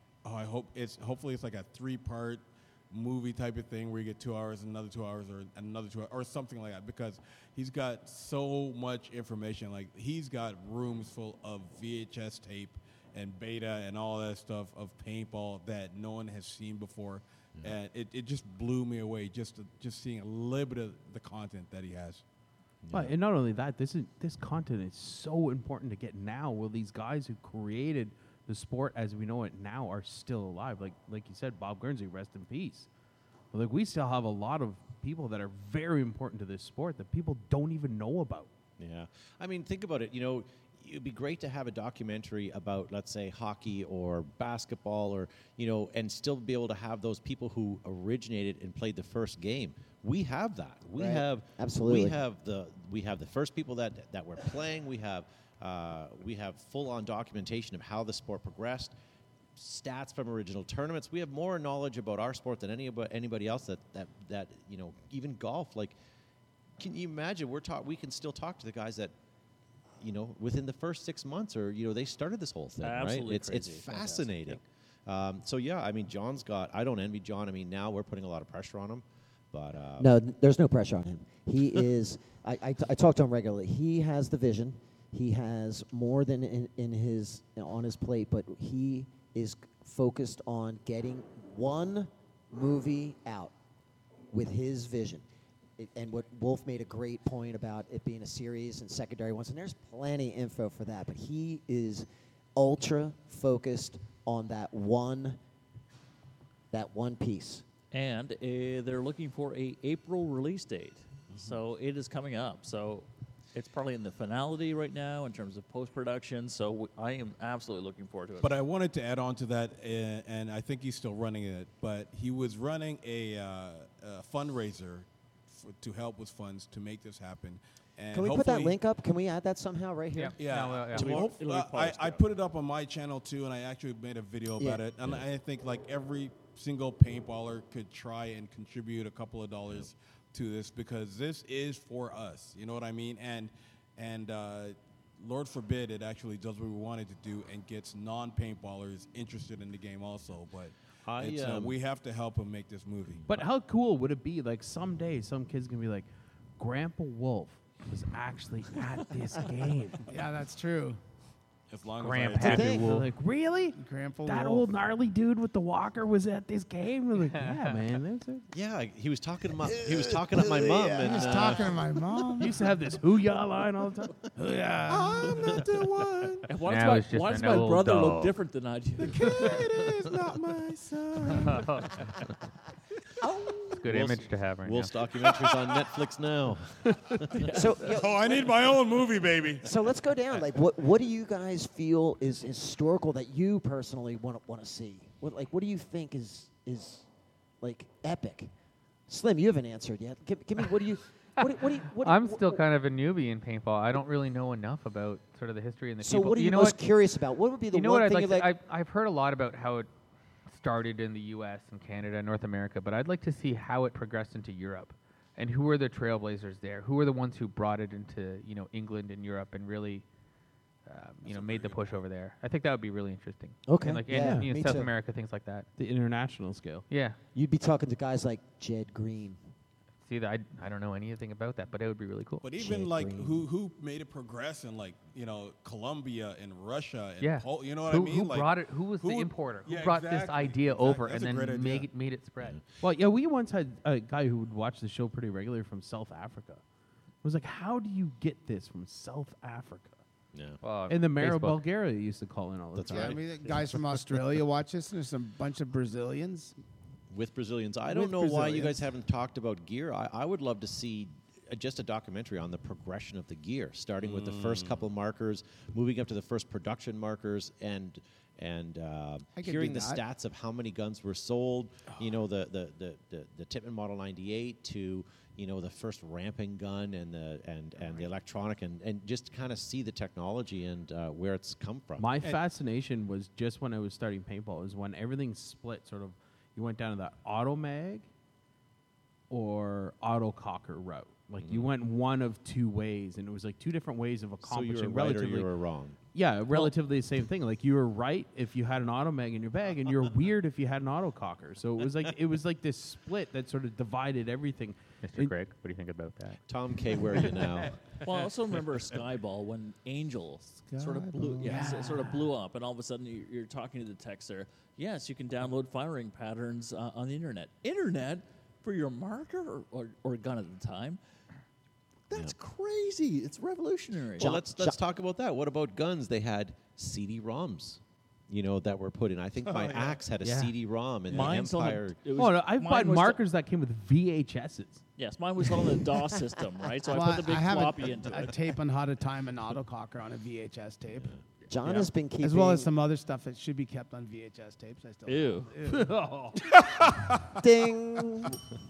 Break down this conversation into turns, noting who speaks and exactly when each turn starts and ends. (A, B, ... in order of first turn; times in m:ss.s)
0:00.2-0:22.2 A
0:22.8-0:23.1 B
0:22.9-0:32.9 C
0:33.5-0:38.5 C
0:38.8-0:58.9 B
0:51.0-0:52.2 D
0:59.6-1:06.0 B
1:06.8-1:09.1 B
1:10.0-1:20.1 B
1:12.8-1:14.6 E
1:20.0-1:33.5 D
1:34.3-1:35.2 D
1:35.8-1:45.4 D
1:46.7-1:47.6 D
1:47.9-1:58.5 E
1:58.4-2:08.8 A
2:08.1-2:10.4 D
2:10.1-2:11.2 F
2:10.4-2:33.2 A
2:10.9-2:12.2 E
2:31.0-2:31.8 B
2:33.3-2:40.1 C
2:40.0-2:41.0 G
2:41.7-2:42.8 A
2:42.0-2:43.0 F
2:42.4-2:43.0 D
2:42.4-2:48.4 C
2:43.7-2:44.7 G
2:48.5-2:51.8 B
2:49.8-2:52.7 G
2:52.4-2:54.3 C
2:54.4-2:55.7 G
2:55.5-2:56.2 A
2:56.5-2:59.5 E
2:56.6-2:58.3 F
2:59.0-3:01.8 A
2:59.2-3:00.0 G
3:00.7-3:01.2 G
3:01.3-3:02.0 F
3:03.2-3:03.6 D
3:03.7-3:04.9 F
3:03.8-3:07.3 B
3:07.3-3:07.7 E
3:07.5-3:08.8 D
3:07.8-3:09.7 A
3:09.6-3:17.0 D
3:17.6-3:18.5 D
3:19.1-3:22.6 D
3:22.0-3:26.8 F
3:26.0-3:28.5 D
3:27.7-3:29.9 F
3:30.5-3:40.0 F
3:40.9-3:45.7 F
3:41.2-3:41.9 A
3:43.7-3:44.9 D
3:44.1-3:44.5 C
3:45.8-3:46.8 C
3:46.9-3:47.2 F
3:47.3-3:49.4 D
3:50.0-3:52.4 F
3:52.4-4:01.9 A
3:52.6-3:53.4 D
3:57.2-4:02.6 F
4:02.8-4:06.6 C
4:07.2-4:09.9 C
4:10.3-4:10.6 B
4:10.6-4:11.6 F
4:10.9-4:13.2 C
4:12.7-4:13.8 B
4:12.9-4:16.6 G
4:17.1-4:42.1 B
4:17.9-4:18.8 G
4:24.0-4:24.8 A
4:29.3-4:30.0 G
4:42.0-4:48.1 C
4:49.3-4:55.5 C
4:51.4-4:51.7 B
4:54.4-4:56.0 B
4:56.1-5:05.3 C
5:05.0-5:06.4 F
5:06.5-5:07.8 B
5:08.0-5:21.0 E
5:10.7-5:12.1 G
5:11.5-5:11.8 C
5:22.1-5:24.3 E
5:24.2-5:24.8 D
5:24.2-5:32.0 B
5:29.4-5:30.0 A
5:30.2-5:30.5 C
5:31.1-5:33.2 E
5:32.2-5:34.8 C
5:35.0-5:38.4 E
5:36.9-5:41.1 G
5:41.5-5:42.7 D
5:41.6-5:41.9 E
5:42.2-5:46.0 G
5:45.0-5:45.5 E
5:45.7-5:46.4 C
5:47.4-5:48.4 D